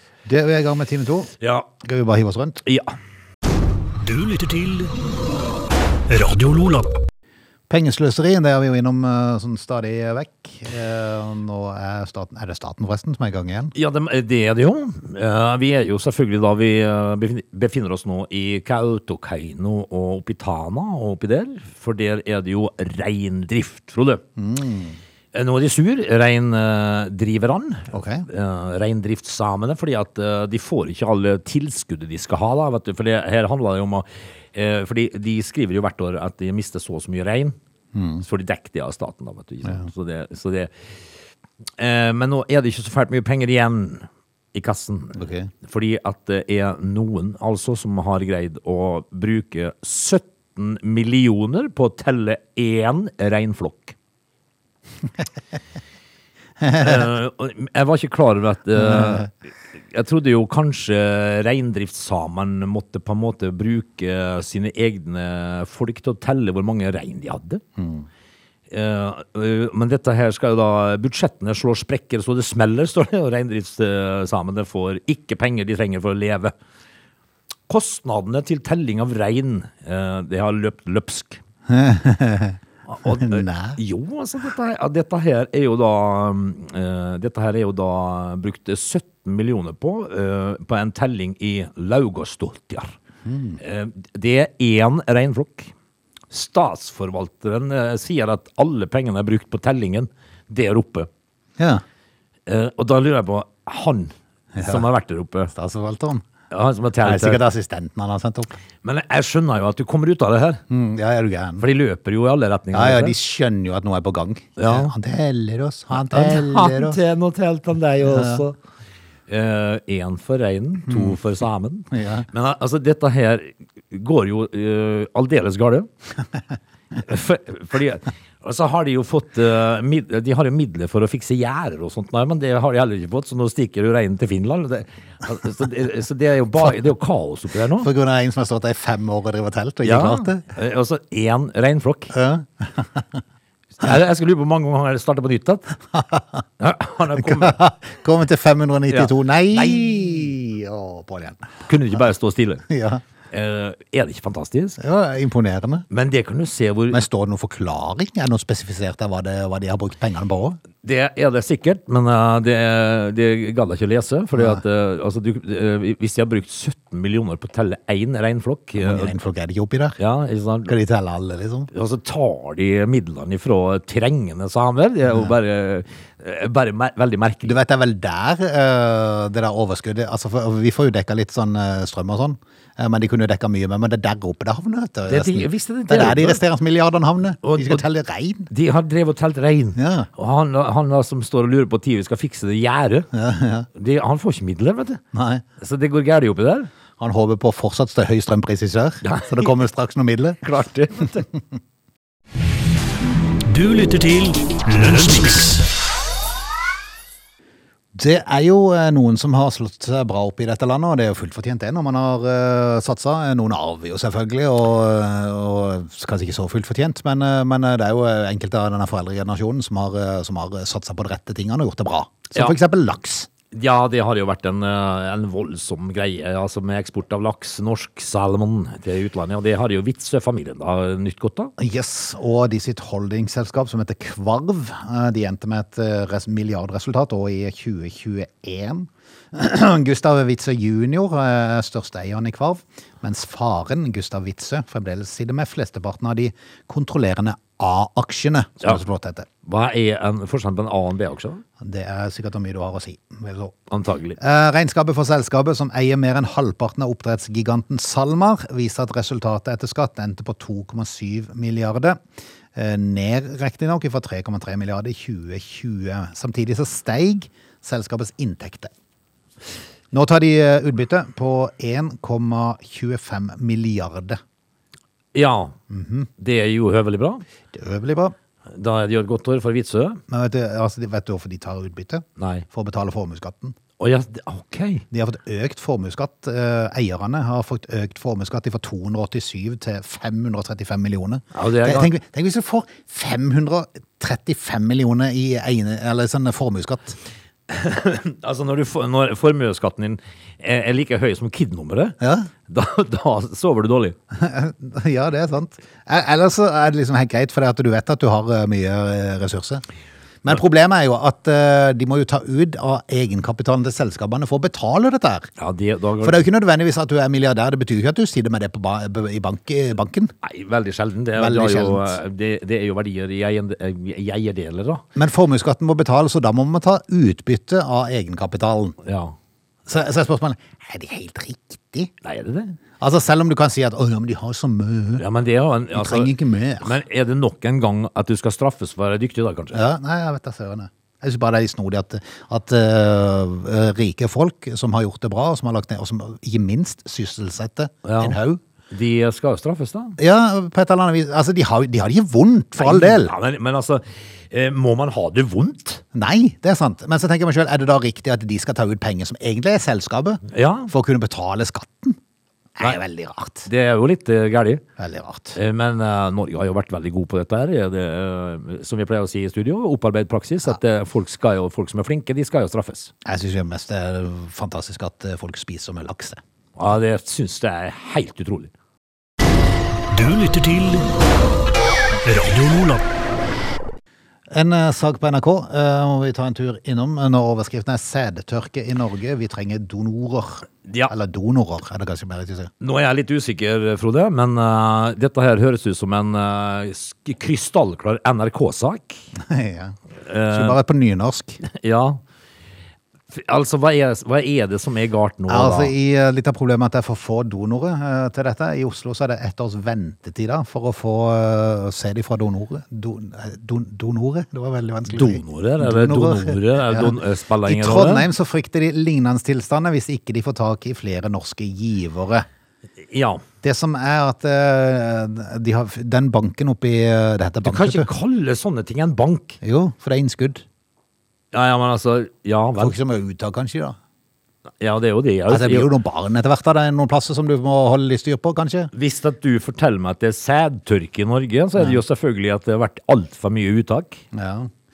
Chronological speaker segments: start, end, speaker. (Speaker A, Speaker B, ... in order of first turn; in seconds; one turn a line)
Speaker A: 0.2-2.6
Speaker B: 1.4-1.7
Speaker B: 2.6-2.9
Speaker C: 4.0-4.9
Speaker C: 6.1-6.9
Speaker A: 7.7-13.7
Speaker B: 13.7-24.2
Speaker A: 24.4-25.0
Speaker B: 25.3-37.5
Speaker A: 27.9-28.2
Speaker A: 37.9-38.2
Speaker B: 38.2-40.7
Speaker B: 41.8-53.9
Speaker A: 45.1-45.5
Speaker A: 56.6-56.9
Speaker B: 56.7-67.6
Speaker A: 58.8-59.2
Speaker A: 67.8-68.0
Speaker B: 68.7-76.5
Speaker B: 77.7-81.4
Speaker A: 81.7-83.8
Speaker B: 82.9-93.0
Speaker A: 93.2-93.6
Speaker B: 93.6-95.7
Speaker B: 96.3-101.1
Speaker A: 101.6-101.8
Speaker B: 102.5-105.5
Speaker A: 104.5-104.8
Speaker A: 105.5-106.2
Speaker B: 106.5-107.4
Speaker A: 107.0-108.6
Speaker B: 108.8-110.6
Speaker A: 110.7-111.6
Speaker B: 111.6-113.2
Speaker A: 112.7-117.0
Speaker B: 114.6-114.9
Speaker B: 115.9-118.5
Speaker A: 118.1-118.4
Speaker B: 119.3-125.9
Speaker A: 120.9-121.2
Speaker A: 121.9-122.3
Speaker B: 127.0-137.9
Speaker A: 137.8-140.4
Speaker B: 139.8-142.1
Speaker A: 142.1-143.2
Speaker B: 143.8-145.8
Speaker A: 146.0-146.4
Speaker B: 146.6-147.6
Speaker A: 147.2-151.5
Speaker B: 148.9-150.0
Speaker B: 151.7-152.7
Speaker A: 152.7-153.0
Speaker B: 153.3-154.8
Speaker A: 154.8-155.8
Speaker B: 155.9-157.0
Speaker A: 156.9-160.6
Speaker B: 160.8-169.1
Speaker A: 164.3-164.6
Speaker A: 168.8-170.0
Speaker B: 170.0-170.7
Speaker A: 170.7-171.7
Speaker B: 171.7-177.6
Speaker A: 175.1-175.3
Speaker A: 177.4-188.5
Speaker B: 185.1-186.4
Speaker B: 187.4-187.8
Speaker B: 188.5-193.1
Speaker A: 189.8-190.1
Speaker A: 193.1-193.7
Speaker B: 193.7-195.0
Speaker A: 195.1-195.4
Speaker B: 195.6-196.7
Speaker A: 197.0-200.4
Speaker B: 199.0-199.5
Speaker B: 200.4-201.2
Speaker C: 203.4-205.6
Speaker A: 207.9-223.3
Speaker B: 223.5-231.5
Speaker A: 231.6-249.3
Speaker B: 249.4-251.4
Speaker A: 251.6-253.5
Speaker B: 253.7-254.2
Speaker A: 254.2-262.0
Speaker A: 262.5-268.7
Speaker A: 269.9-274.2
Speaker B: 275.1-275.6
Speaker A: 275.7-276.1
Speaker B: 276.2-277.2
Speaker A: 277.5-278.1
Speaker B: 278.5-280.0
Speaker A: 280.1-283.6
Speaker B: 282.2-282.4
Speaker B: 283.8-284.8
Speaker A: 284.9-297.0
Speaker B: 291.3-291.9
Speaker B: 297.5-304.0
Speaker A: 302.0-302.3
Speaker A: 304.1-309.6
Speaker A: 310.2-315.3
Speaker B: 315.4-316.2
Speaker A: 316.0-320.1
Speaker B: 320.2-324.8
Speaker A: 321.2-322.0
Speaker A: 324.9-328.8
Speaker B: 328.8-329.1
Speaker A: 329.7-331.9
Speaker B: 332.0-332.6
Speaker A: 332.8-335.0
Speaker B: 335.0-339.6
Speaker A: 335.7-336.8
Speaker A: 339.5-348.4
Speaker B: 347.8-348.2
Speaker B: 348.7-350.0
Speaker A: 350.0-353.1
Speaker B: 352.6-355.8
Speaker A: 355.9-362.0
Speaker B: 360.3-360.7
Speaker A: 362.6-363.5
Speaker B: 363.4-364.6
Speaker A: 364.8-365.4
Speaker B: 365.4-372.9
Speaker A: 373.0-376.2
Speaker B: 376.6-378.5
Speaker C: 379.9-380.9
Speaker C: 382.0-382.8
Speaker A: 384.3-392.5
Speaker B: 390.7-390.9
Speaker B: 392.6-399.0
Speaker A: 399.2-399.8
Speaker B: 400.0-400.6
Speaker A: 400.3-401.4
Speaker B: 401.4-402.0
Speaker B: 403.1-405.7
Speaker A: 405.3-422.2
Speaker B: 414.9-418.1
Speaker B: 422.9-423.2
Speaker A: 423.4-427.9
Speaker B: 427.4-429.4
Speaker A: 429.4-430.4
Speaker B: 431.3-432.8
Speaker A: 432.6-433.8
Speaker B: 434.6-435.7
Speaker A: 435.3-438.7
Speaker B: 438.7-444.0
Speaker A: 444.1-444.5